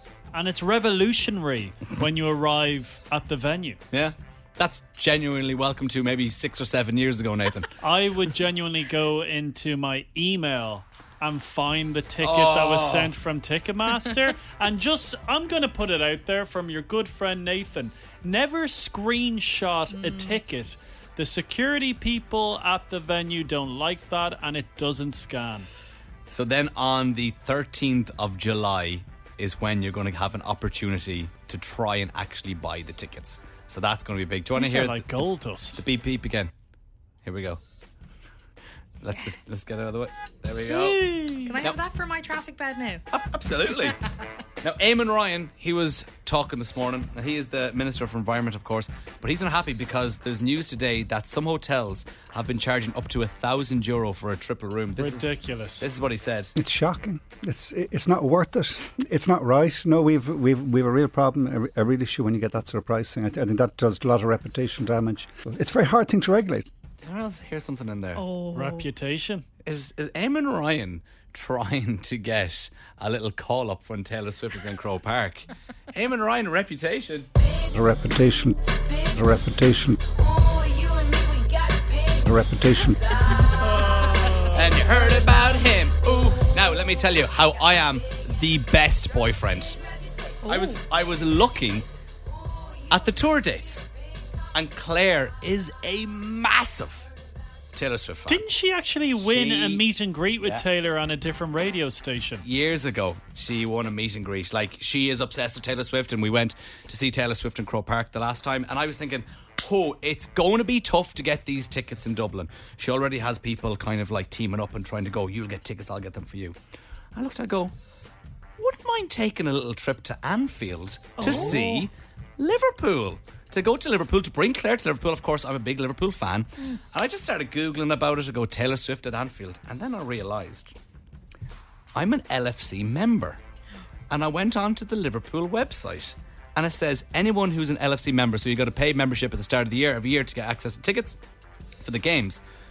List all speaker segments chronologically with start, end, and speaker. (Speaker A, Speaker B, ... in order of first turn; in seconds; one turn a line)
Speaker A: 0.3-3.8
Speaker B: 3.9-7.7
Speaker A: 7.8-25.7
Speaker B: 12.2-13.1
Speaker C: 20.0-20.4
Speaker B: 26.3-35.2
Speaker A: 34.5-35.8
Speaker B: 35.7-36.5
Speaker B: 37.2-37.6
Speaker B: 39.0-41.8
Speaker A: 40.7-41.6
Speaker C: 41.4-43.0
Speaker B: 43.1-44.0
Speaker B: 44.6-56.5
Speaker A: 55.0-55.9
Speaker D: 56.5-66.7
Speaker B: 67.0-68.2
Speaker C: 68.2-68.9
Speaker A: 68.5-69.5
Speaker B: 69.6-77.3
Speaker D: 77.7-80.0
Speaker D: 82.0-83.0
Speaker A: 83.7-84.7
Speaker B: 84.4-89.8
Speaker C: 90.5-90.8
Speaker B: 90.5-91.9
Speaker B: 92.9-93.9
Speaker B: 94.5-97.1
Speaker B: 97.7-98.4
Speaker A: 98.3-102.4
Speaker B: 99.2-99.8
Speaker B: 102.4-116.5
Speaker B: 117.1-117.7
Speaker B: 118.6-130.7
Speaker C: 121.2-121.8
Speaker A: 121.2-121.6
Speaker B: 131.9-133.4
Speaker B: 134.1-141.2
Speaker B: 141.8-142.4